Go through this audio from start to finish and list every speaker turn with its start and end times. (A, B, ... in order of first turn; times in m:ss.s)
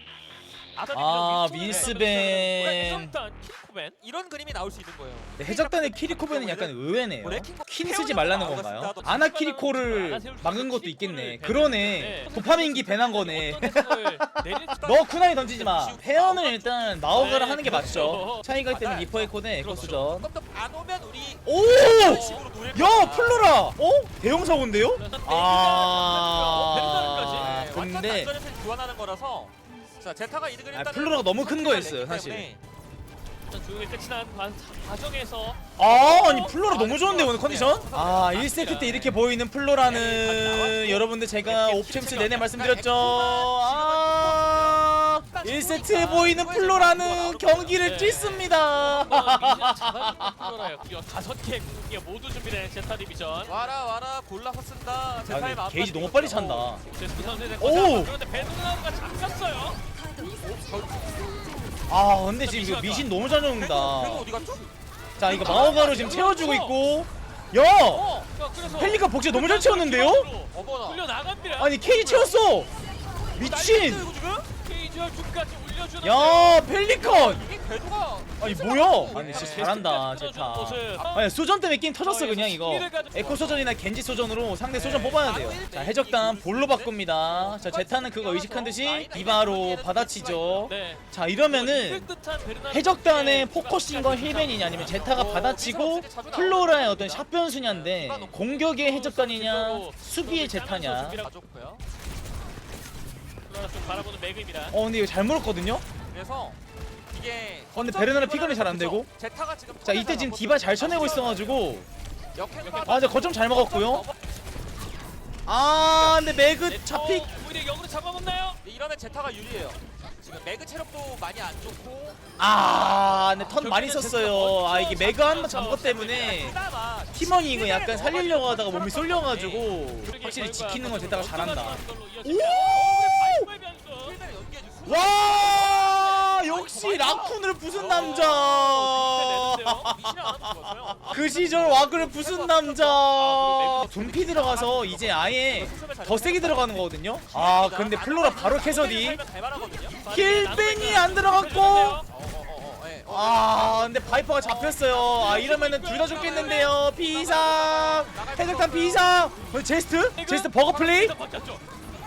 0:00.7-0:04.0 A
0:00.9-0:03.1 B
0:01.6-0:02.0 C
0:04.0-0:09.2 C
0:05.4-0:20.3 B
0:09.0-0:14.8 A
0:14.7-0:23.6 C
0:17.1-0:18.5 A
0:19.6-0:20.1 A
0:21.4-0:28.3 B
0:21.9-0:22.5 A
0:24.8-0:27.6 A
0:27.2-0:32.6 C
0:30.7-0:32.5 B
0:33.5-0:36.5 A
0:35.8-0:50.5 B
0:35.8-0:38.5 C
0:38.3-0:39.2 A
0:39.8-0:41.0 A
0:39.9-0:40.3 C
0:41.4-0:47.8 C
0:47.8-0:53.5 A
0:53.4-0:57.6 C
0:55.3-0:56.8 B
0:56.9-0:59.8 A
0:57.6-0:58.1 B
1:00.2-1:01.5 C
1:01.9-1:04.3 B
1:02.4-1:03.2 A
1:03.5-1:04.7 C
1:05.2-1:08.1 B
1:05.2-1:06.7 A
1:05.2-1:06.2 C
1:07.9-1:08.3 C
1:08.3-1:12.3 A
1:08.7-1:10.3 B
1:10.5-1:11.0 C
1:11.6-1:12.7 B
1:13.3-1:14.1 B
1:13.4-1:14.5 C
1:14.6-1:16.7 A
1:16.0-1:17.4 B
1:17.0-1:20.0 C
1:18.4-1:32.1 B
1:19.0-1:21.3 A
1:22.0-1:23.7 A
1:24.7-1:25.4 A
1:25.1-1:30.7 C
1:30.7-1:35.1 A
1:32.7-1:41.2 B
1:34.7-1:38.4 C
1:38.4-1:41.3 A
1:41.2-1:41.8 C
1:43.4-1:44.8 A
1:44.7-1:45.8 B
1:46.1-1:46.6 C
1:47.1-1:51.6 C
1:47.7-1:49.1 B
1:49.8-1:51.9 B
1:52.3-1:54.1 C
1:52.6-1:53.3 A
1:52.8-1:54.1 B
1:55.4-1:57.3 B
1:56.6-1:58.6 A
1:58.6-2:02.2 C
2:02.4-2:06.6 B
2:03.4-2:06.4 A
2:05.9-2:09.7 C
2:07.1-2:13.5 B
2:10.0-2:14.2 A
2:12.5-2:12.9 C
2:14.0-2:18.4 C
2:14.8-2:29.2 B
2:15.6-2:16.3 A
2:17.7-2:19.9 A
2:19.8-2:23.0 C
2:23.1-2:24.6 A
2:23.9-2:30.0 C
2:29.7-2:32.1 A
2:30.0-2:32.0 B
2:32.1-2:34.3 C
2:33.1-2:41.1 B
2:34.3-2:36.8 A
2:36.1-2:39.5 C
2:40.1-2:41.6 A